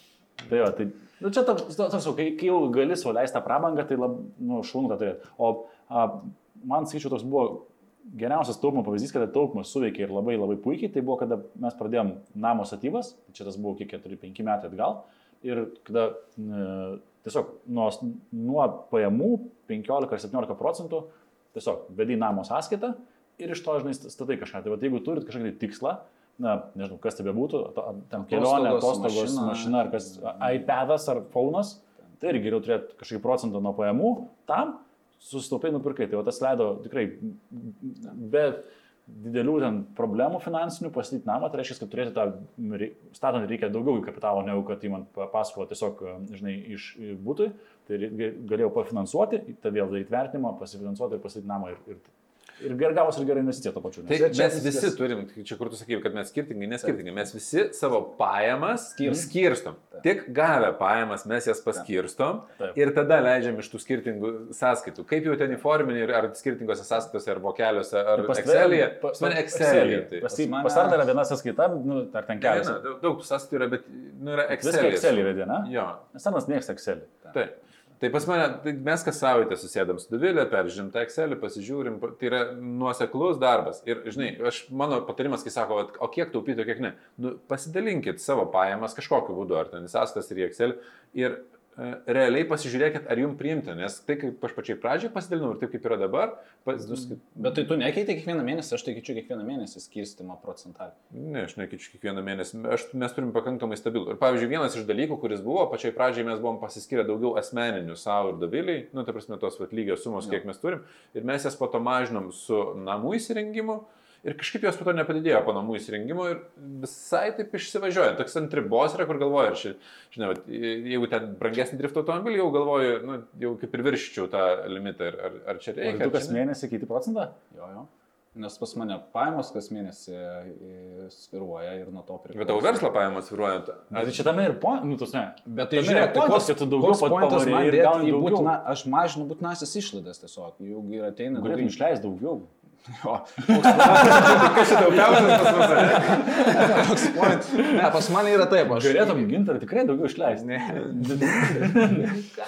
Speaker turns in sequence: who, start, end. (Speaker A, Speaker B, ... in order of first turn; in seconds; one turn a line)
Speaker A: 0.5-54.5
Speaker B: 28.2-29.8
Speaker C: 54.1-70.3
Speaker B: 54.1-55.0
Speaker B: 59.0-59.3
Speaker A: 68.2-72.8
Speaker B: 70.3-71.0
Speaker C: 72.4-76.0
Speaker A: 74.5-77.2
Speaker C: 77.3-97.5
Speaker B: 96.8-101.0
Speaker C: 101.1-126.4
Speaker A: 125.8-127.9
Speaker B: 128.3-132.9
Speaker C: 132.3-134.3
Speaker A: 133.9-138.5
Speaker B: 135.5-141.8
Speaker A: 141.3-142.5
Speaker B: 142.9-149.3
Speaker A: 143.4-148.1
Speaker C: 143.8-147.1
Speaker A: 148.6-152.2
Speaker B: 150.3-152.3